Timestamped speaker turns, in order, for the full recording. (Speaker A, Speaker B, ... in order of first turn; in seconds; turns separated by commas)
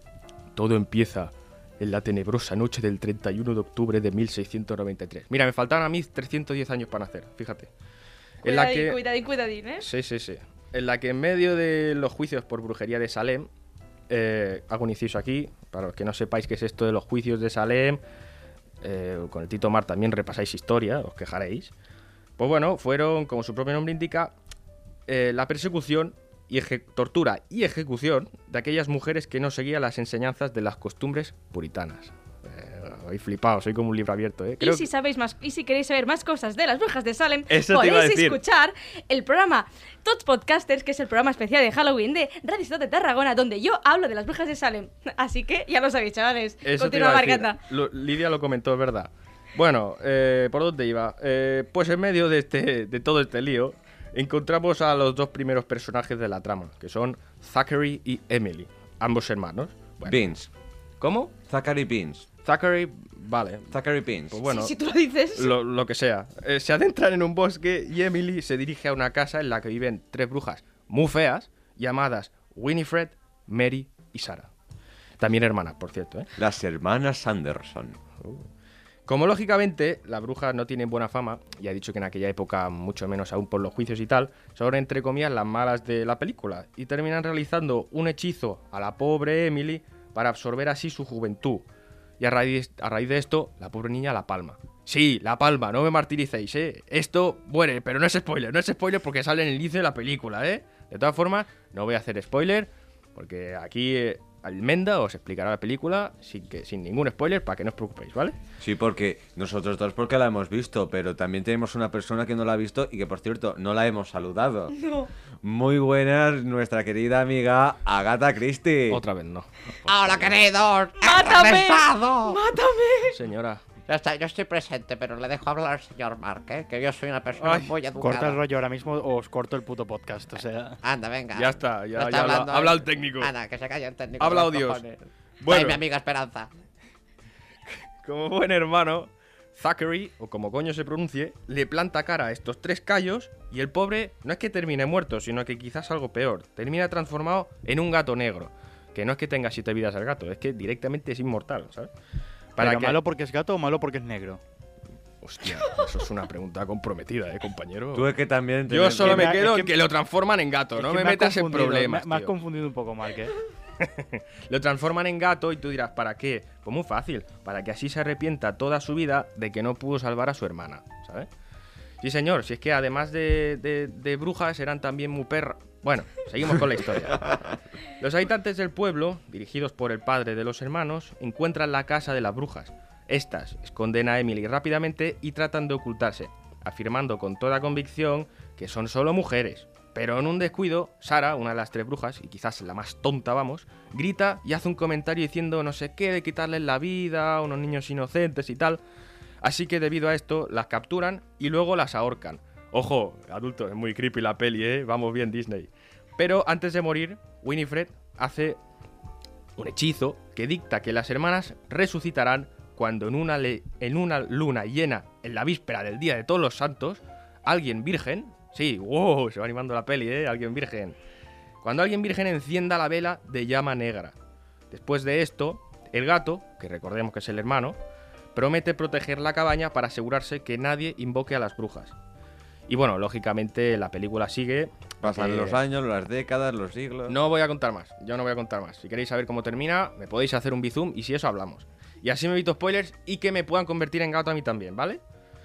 Speaker A: 0.6-7.7, Speaker A: 8.4-9.0, Speaker B: 8.4-9.9, Speaker A: 9.8-13.5, Speaker A: 14.1-18.0, Speaker A: 18.8-21.7, Speaker A: 22.4-24.3, Speaker A: 25.1-34.9, Speaker B: 34.6-47.6, Speaker A: 37.5-38.4, Speaker A: 46.6-60.3, Speaker C: 60.0-60.5, Speaker A: 61.0-61.3, Speaker C: 61.5-62.3, Speaker A: 62.4-63.8, Speaker C: 63.7-64.4, Speaker A: 64.3-64.7, Speaker B: 64.4-65.5, Speaker A: 65.3-74.5, Speaker A: 75.2-76.3, Speaker C: 76.4-78.0, Speaker A: 79.1-91.7, Speaker A: 92.2-108.4, Speaker C: 108.6-114.8, Speaker B: 114.7-115.1, Speaker C: 115.4-119.0, Speaker A: 118.9-120.3, Speaker D: 119.9-122.4, Speaker B: 121.0-123.2, Speaker A: 123.1-123.6, Speaker D: 123.9-128.4, Speaker A: 127.4-127.7, Speaker E: 128.0-130.8, Speaker D: 130.8-134.9, Speaker A: 131.3-133.3, Speaker A: 134.2-135.8, Speaker D: 135.5-136.5, Speaker A: 137.7-151.9, Speaker A: 152.6-153.0, Speaker E: 152.6-154.4, Speaker A: 155.2-158.1, Speaker C: 157.9-159.4, Speaker A: 158.7-162.3, Speaker E: 159.0-159.7, Speaker E: 160.8-163.3, Speaker A: 163.8-171.3, Speaker A: 172.0-198.8, Speaker A: 199.4-208.6, Speaker A: 209.6-221.0, Speaker A: 221.6-224.2, Speaker A: 224.7-227.8, Speaker A: 228.3-231.9, Speaker A: 232.7-235.6, Speaker C: 235.0-237.2, Speaker A: 237.1-245.0